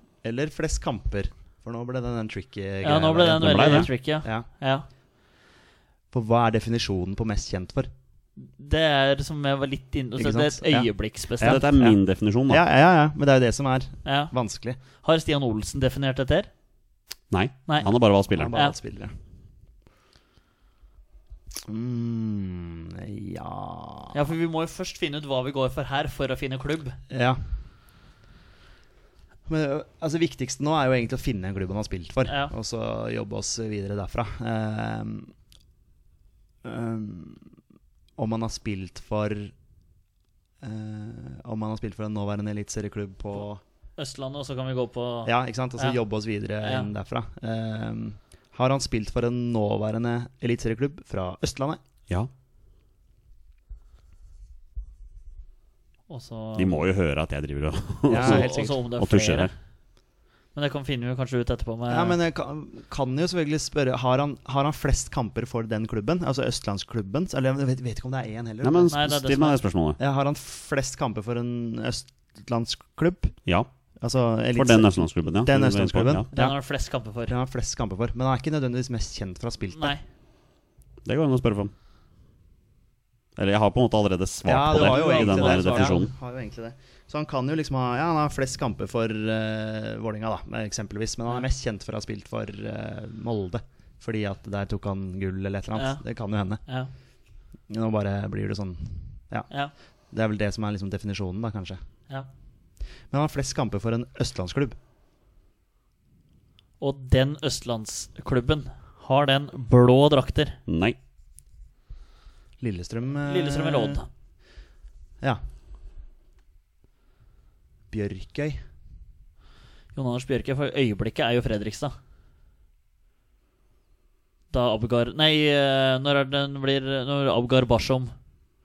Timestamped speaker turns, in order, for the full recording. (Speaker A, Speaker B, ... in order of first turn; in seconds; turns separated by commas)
Speaker A: 0.2-4.5, Speaker B: 2.8-4.9, Speaker C: 3.4-3.9, Speaker A: 6.1-7.9, Speaker B: 8.4-11.6, Speaker A: 10.2-14.8, Speaker C: 11.4-12.6, Speaker B: 14.0-14.3, Speaker B: 14.9-16.5, Speaker C: 17.3-18.5, Speaker A: 18.3-19.1, Speaker A: 21.6-24.2, Speaker B: 24.1-27.0, Speaker A: 27.1-27.4, Speaker A: 29.4-35.3, Speaker B: 32.2-32.5, Speaker A: 36.6-37.5, Speaker A: 38.2-39.5, Speaker A: 40.6-43.6, Speaker B: 44.0-46.0, Speaker A: 45.2-51.8, Speaker B: 46.6-46.9, Speaker B: 56.1-56.7, Speaker C: 56.5-59.5, Speaker A: 58.1-58.8, Speaker B: 58.1-59.5, Speaker B: 60.5-62.2, Speaker A: 61.9-69.0, Speaker C: 68.6-70.0, Speaker B: 68.9-69.6, Speaker A: 70.0-73.4, Speaker A: 74.0-76.6, Speaker C: 74.5-76.3, Speaker B: 76.3-77.3, Speaker A: 77.3-80.0, Speaker B: 79.7-80.0, Speaker C: 81.0-81.7, Speaker C: 83.3-86.1, Speaker A: 84.4-96.6, Speaker B: 84.7-86.0, Speaker B: 95.7-96.0, Speaker B: 96.7-96.9, Speaker A: 97.7-99.5, Speaker A: 100.1-101.8, Speaker A: 103.1-104.8, Speaker B: 106.8-110.6, Speaker C: 110.7-111.0, Speaker A: 112.6-114.0, Speaker B: 113.2-114.1, Speaker A: 117.9-118.6, Speaker B: 119.9-121.9, Speaker B: 124.5-128.1